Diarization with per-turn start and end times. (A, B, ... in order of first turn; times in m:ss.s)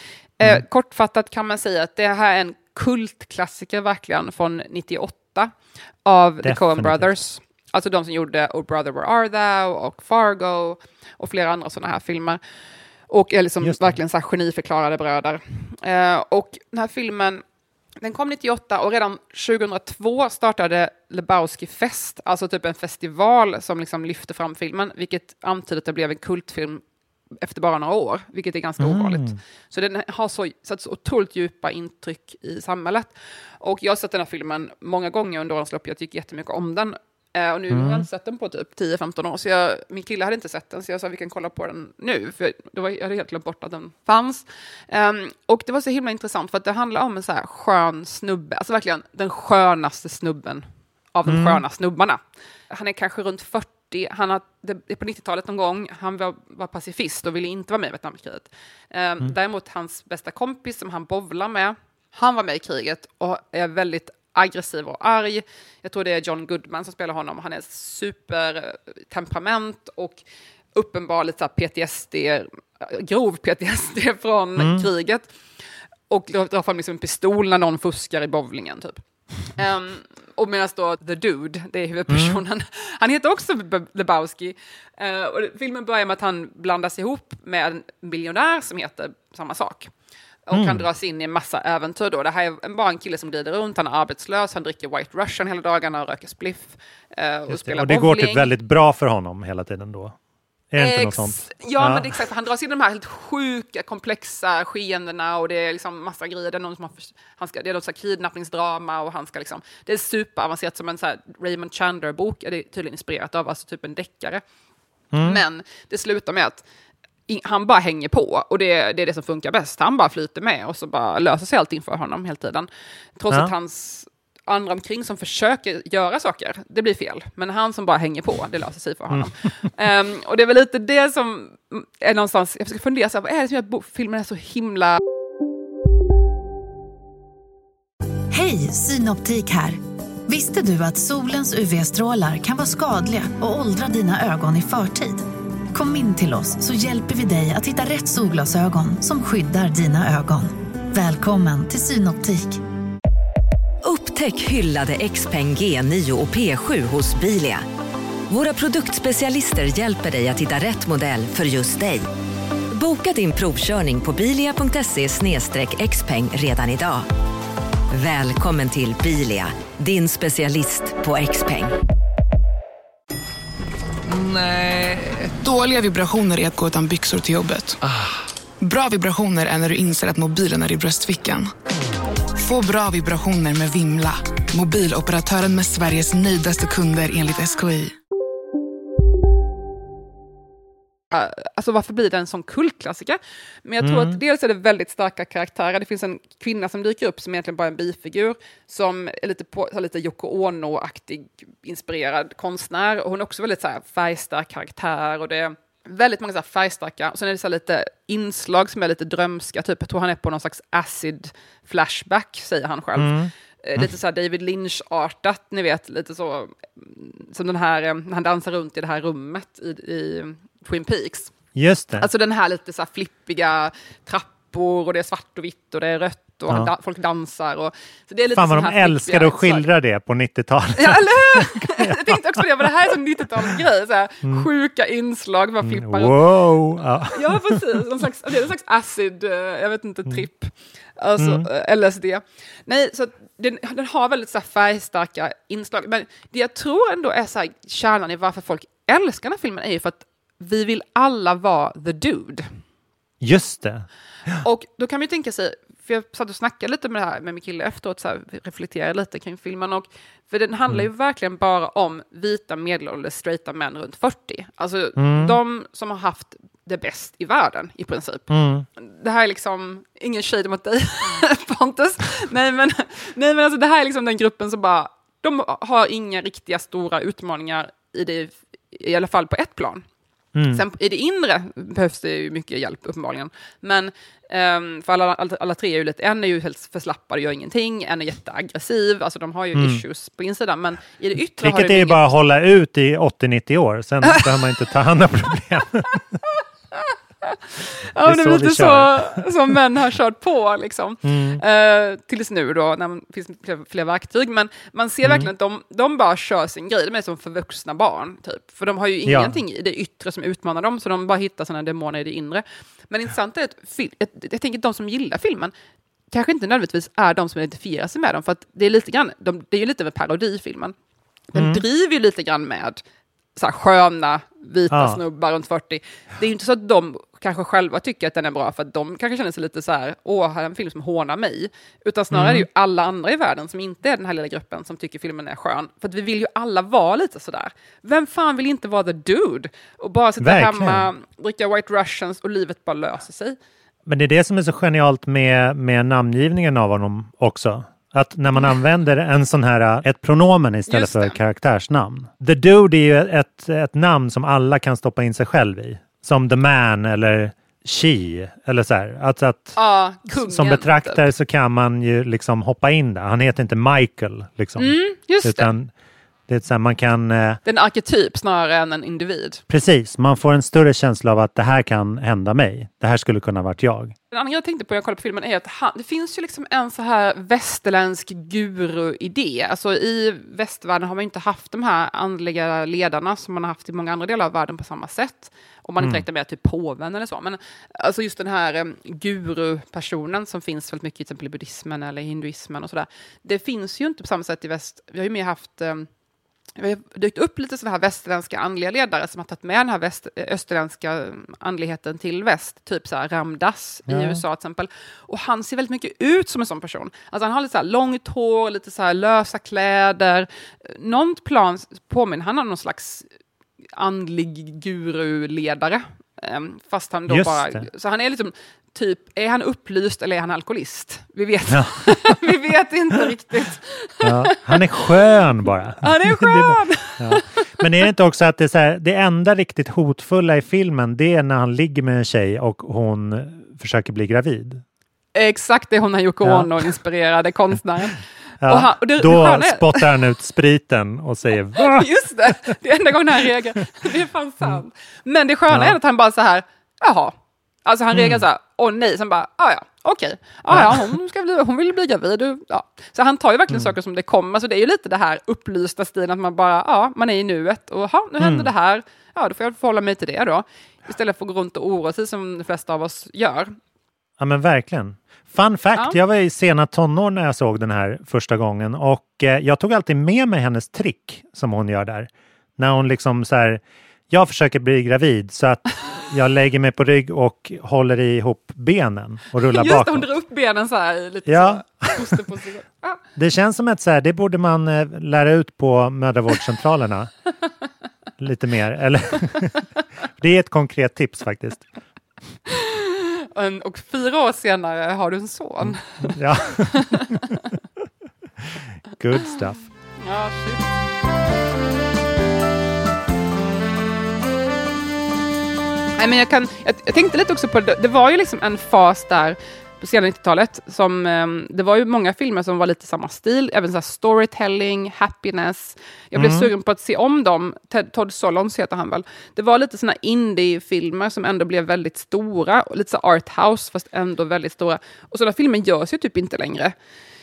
0:00.4-0:05.5 A
0:06.1-0:12.4 A
0:06.4-0:07.2 B
0:13.1-0:17.4 A
0:13.6-0:14.0 B
0:18.0-0:26.8 A
0:27.4-0:52.2 A
0:28.8-0:29.4 B
0:37.7-0:38.1 B
0:51.3-0:51.6 B
0:52.7-1:10.2 A
1:10.8-1:15.3 A
1:14.6-1:14.9 B
1:16.1-1:19.0 A
1:19.5-1:29.9 A
1:22.1-1:22.4 B
1:30.5-1:38.5 A
1:30.5-1:30.8 B
1:37.5-1:40.2 B
1:40.7-1:42.1 B
1:40.8-1:54.4 A
1:55.1-1:55.4 B
1:55.2-1:56.6 A
1:57.3-2:15.0 A
2:18.3-2:32.6 C
2:33.8-2:37.6 D
2:38.3-2:42.0 D
2:42.7-2:47.1 D
2:47.9-2:51.7 D
2:54.1-2:57.8 E
2:58.6-3:01.5 E
3:02.4-3:08.0 E
3:11.1-3:41.3 A
3:13.8-3:14.2 B
3:33.0-3:33.9 B
3:41.6-3:42.1 B
3:42.0-3:49.7 A
3:48.4-3:52.8 B
3:50.8-3:56.2 A
3:55.6-3:57.8 B
3:57.1-4:12.5 A
4:01.2-4:01.5 B
4:13.2-4:14.4 B
4:14.4-4:39.8 A
4:25.0-4:25.4 B
4:28.3-4:28.7 B
4:40.4-4:40.6 B
4:40.5-4:52.1 A
4:49.6-4:49.8 B
4:51.4-4:56.2 B
4:56.7-5:15.5 A
4:58.0-4:59.3 B
5:01.0-5:01.4 B
5:05.0-5:05.3 B
5:09.1-5:09.4 B
5:16.1-5:20.7 A
5:21.3-5:22.8 A
5:21.4-5:21.6 B
5:23.4-5:43.4 A
5:24.7-5:25.0 B
5:32.1-5:32.5 B
5:40.2-5:40.9 B
5:43.9-5:59.6 B
5:50.7-5:51.2 A
5:59.6-6:01.1 A
6:00.1-6:05.7 B
6:04.6-6:05.5 A
6:06.3-6:07.4 B
6:07.4-6:09.4 A
6:09.5-6:14.0 B
6:14.1-6:35.9 A
6:36.6-6:53.1 A
6:43.9-6:44.2 B
6:53.8-7:04.9 A
6:57.1-6:57.6 B
7:01.5-7:02.2 B
7:04.0-7:14.6 B
7:05.8-7:07.4 A
7:15.2-7:19.9 A
7:16.2-7:16.7 B
7:18.4-7:21.9 B
7:21.6-7:27.1 A
7:25.5-7:25.8 B
7:27.6-7:43.5 A
7:27.9-7:28.2 B
7:30.5-7:30.9 B
7:33.5-7:33.7 B
7:38.2-7:38.5 B
7:44.2-8:00.1 B
7:59.5-8:03.0 A
8:01.3-8:02.2 B
8:03.2-8:07.1 B
8:08.2-8:09.6 B
8:10.2-8:11.7 B
8:12.5-8:17.4 A
8:15.6-8:17.2 B
8:18.9-8:19.6 B
8:20.0-8:20.6 A
8:26.0-8:46.7 A
8:36.2-8:36.5 B